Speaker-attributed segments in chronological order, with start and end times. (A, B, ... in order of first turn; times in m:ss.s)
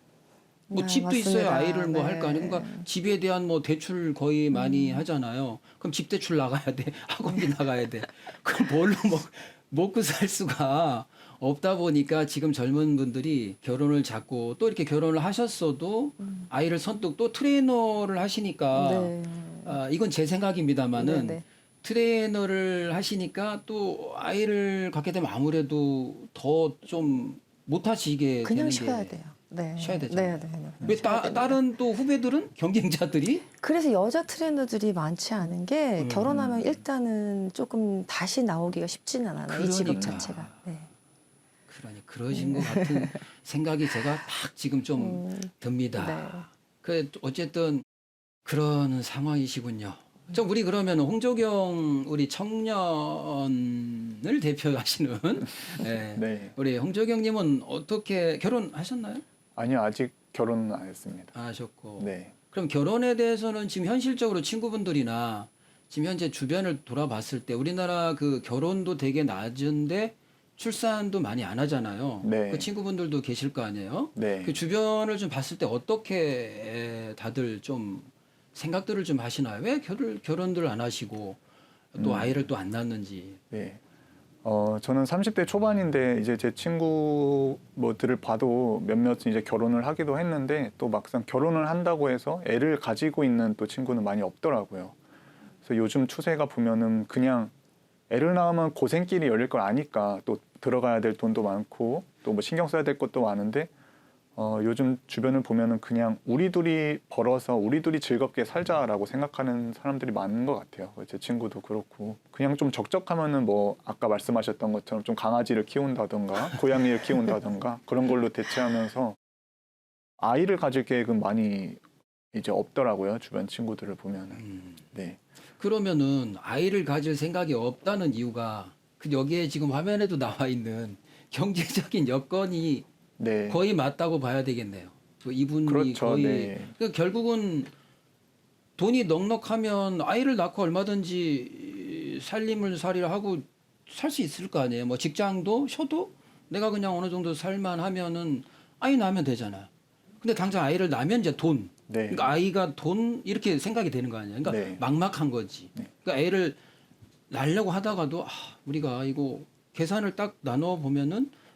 0:00.7-0:02.9 A
0:00.7-0:29.2 B
0:04.5-0:05.0 A
0:16.2-0:16.5 A
0:18.7-0:19.8 A
0:21.0-0:21.4 A
0:28.4-0:31.6 A
0:29.8-0:33.4 B
0:33.6-0:40.9 A
0:36.0-0:36.6 B
0:36.3-0:36.7 C
0:39.5-0:40.6 B
0:41.7-0:47.8 B
0:42.3-0:43.2 A
0:45.0-0:46.5 A
0:48.4-0:59.2 B
0:56.2-0:56.5 C
0:59.6-1:01.3 C
1:01.3-1:21.4 B
1:02.0-1:02.3 C
1:12.2-1:12.7 C
1:14.2-1:14.6 C
1:21.9-1:23.4 B
1:22.0-1:22.3 C
1:23.5-1:23.8 C
1:24.4-1:35.0 C
1:35.6-1:37.5 C
1:38.1-1:43.7 C
1:44.4-1:59.2 C
2:00.2-2:01.8 C
2:02.3-2:04.4 C
2:04.4-2:04.8 B
2:04.9-2:05.2 C
2:05.6-2:12.9 B
2:13.2-2:13.6 C
2:13.5-2:17.7 B
2:15.7-2:16.7 C
2:18.8-2:29.7 B
2:30.2-2:36.6 B
2:31.9-2:32.3 C
2:34.4-2:34.8 C
2:37.3-2:41.3 B